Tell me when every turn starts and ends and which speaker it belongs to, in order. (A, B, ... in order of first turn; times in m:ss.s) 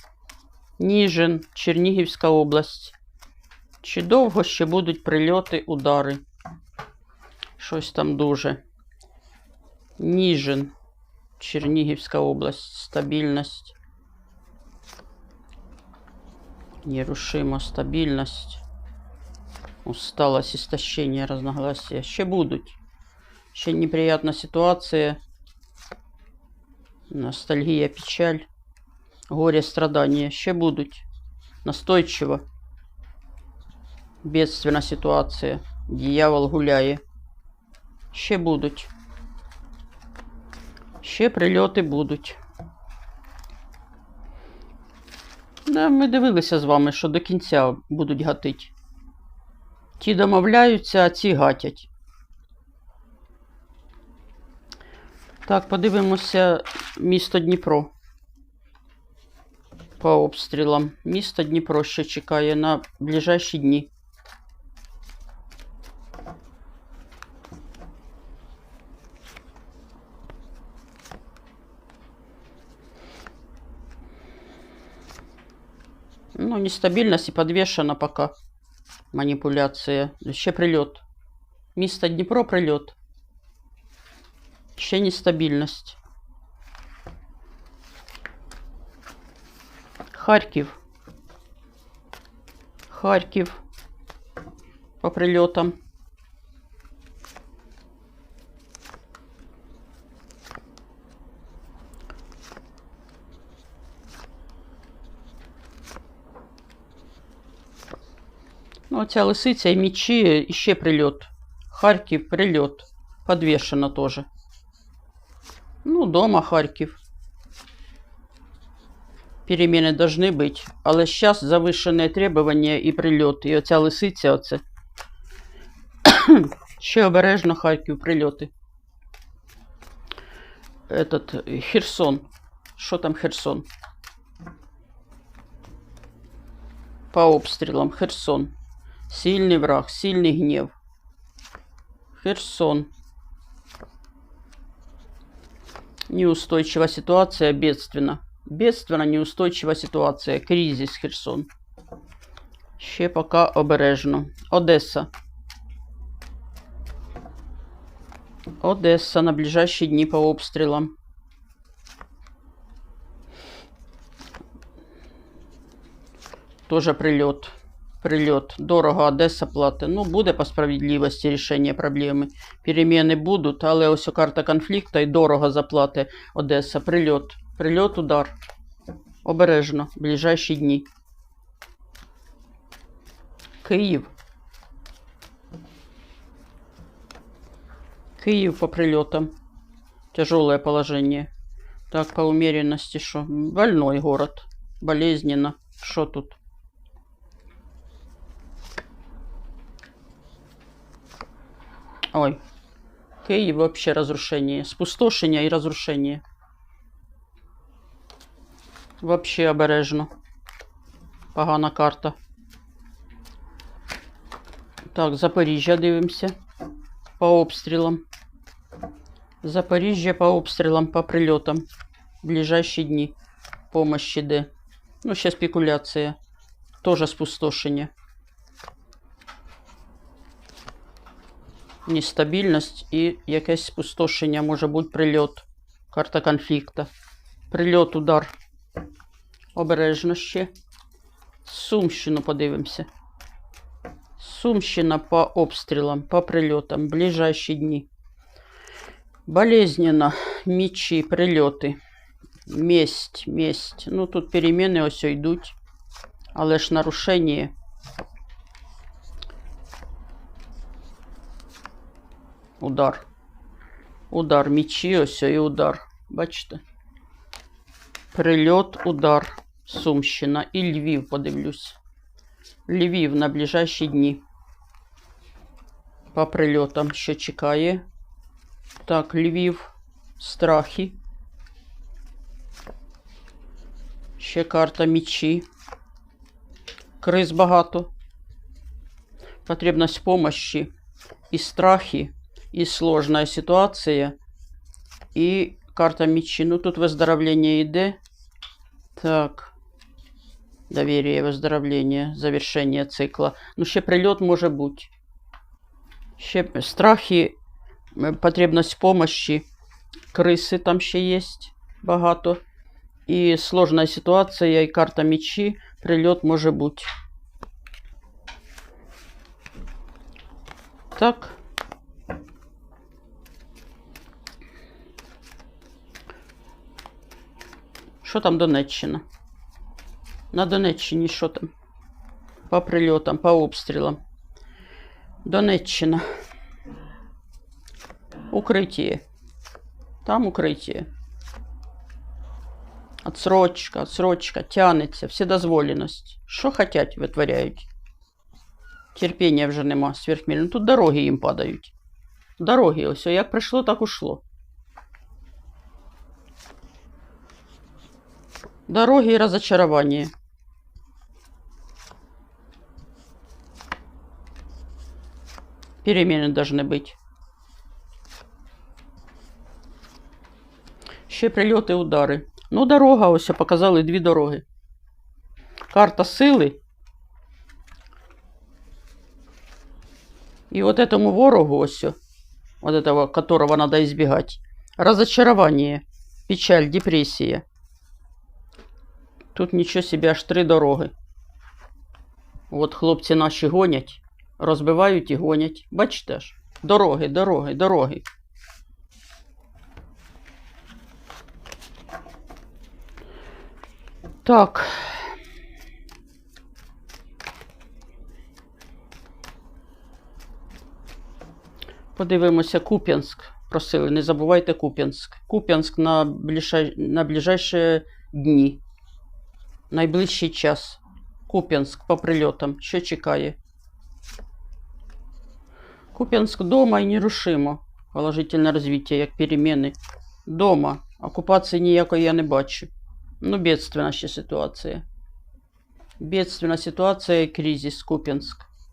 0:00.8-0:02.9 A
0:03.8-0:06.2 A
0:07.6-0:08.6 A
0:10.0-0:10.7 A
0:11.4-0:13.7 A
0:16.8-0:18.6 A
0:19.8-0:22.8 A
0:23.5-0:25.2 A
0:27.1-0:28.4 A
0:29.3-0:31.0 A
0:31.6-0:32.4 A
0:34.2-0:37.0 A
0:38.1-0:38.9 A
0:41.0-0:42.4 A
0:45.6-0:48.7 A
0:50.0-0:51.9 A
0:55.4-0:57.9 A
1:00.0-1:03.9 A
1:16.3-1:18.3 A
1:19.1-1:21.0 A
1:21.7-1:23.0 A
1:24.8-1:26.0 A
1:30.1-1:30.8 A
1:32.9-1:33.6 A
1:35.0-1:35.7 A
1:48.9-1:54.3 A
1:55.8-1:57.0 A
1:59.4-2:04.6 A
2:06.0-2:08.5 A
2:10.9-2:12.2 A
2:12.8-2:13.6 A
2:17.1-2:18.5 A
2:19.1-2:20.7 A
2:22.1-2:22.9 A
2:26.1-2:31.5 A
2:32.8-2:35.1 A
2:38.6-2:40.9 A
2:46.7-2:58.3 A
2:59.2-3:00.8 A
3:03.6-3:04.1 A
3:08.2-3:09.3 A
3:10.1-3:11.3 A
3:11.9-3:16.4 A
3:22.1-3:22.4 A
3:23.2-3:26.2 A
3:29.0-3:30.1 A
3:31.3-3:32.2 A
3:34.9-3:36.4 A
3:37.2-3:38.0 A
3:39.4-3:41.6 A
3:42.2-3:43.1 A
3:43.7-3:44.5 A
3:45.0-3:46.2 A
3:46.8-3:47.9 A
3:51.8-3:56.9 A
3:57.5-3:58.3 A
3:59.5-4:00.5 A
4:01.4-4:02.9 A
4:04.2-4:07.9 A
4:09.3-4:11.8 A
4:12.5-4:15.6 A
4:16.3-4:17.5 A
4:22.6-4:23.0 A
4:24.1-4:26.6 A
4:28.1-4:31.8 A
4:32.7-4:34.2 A
4:36.1-4:37.8 A
4:38.8-4:41.0 A
4:44.2-4:45.4 A
4:47.0-4:47.9 A
4:49.4-4:50.7 A
4:51.3-4:54.2 A
4:55.1-4:58.0 A
4:59.0-4:59.5 A
5:00.7-5:04.9 A
5:06.2-5:07.4 A
5:07.9-5:09.4 A
5:10.1-5:12.4 A
5:13.1-5:16.9 A
5:20.9-5:21.4 A
5:28.0-5:29.0 A
5:30.3-5:31.5 A
5:32.5-5:34.0 A
5:35.2-5:36.0 A
5:38.3-5:39.0 A
5:40.0-5:40.9 A
5:43.0-5:47.7 A
5:48.9-5:51.7 A
5:52.4-5:54.2 A
5:58.7-6:00.1 A
6:05.8-6:07.0 A
6:11.1-6:14.4 A
6:15.7-6:16.6 A
6:20.5-6:22.0 A
6:22.6-6:27.4 A
6:29.3-6:30.9 A
6:32.5-6:38.0 A
6:44.2-6:45.2 A
6:51.9-6:58.6 A
6:59.7-7:03.4 A
7:05.9-7:09.7 A
7:10.2-7:12.7 A
7:13.2-7:14.8 A
7:16.0-7:18.5 A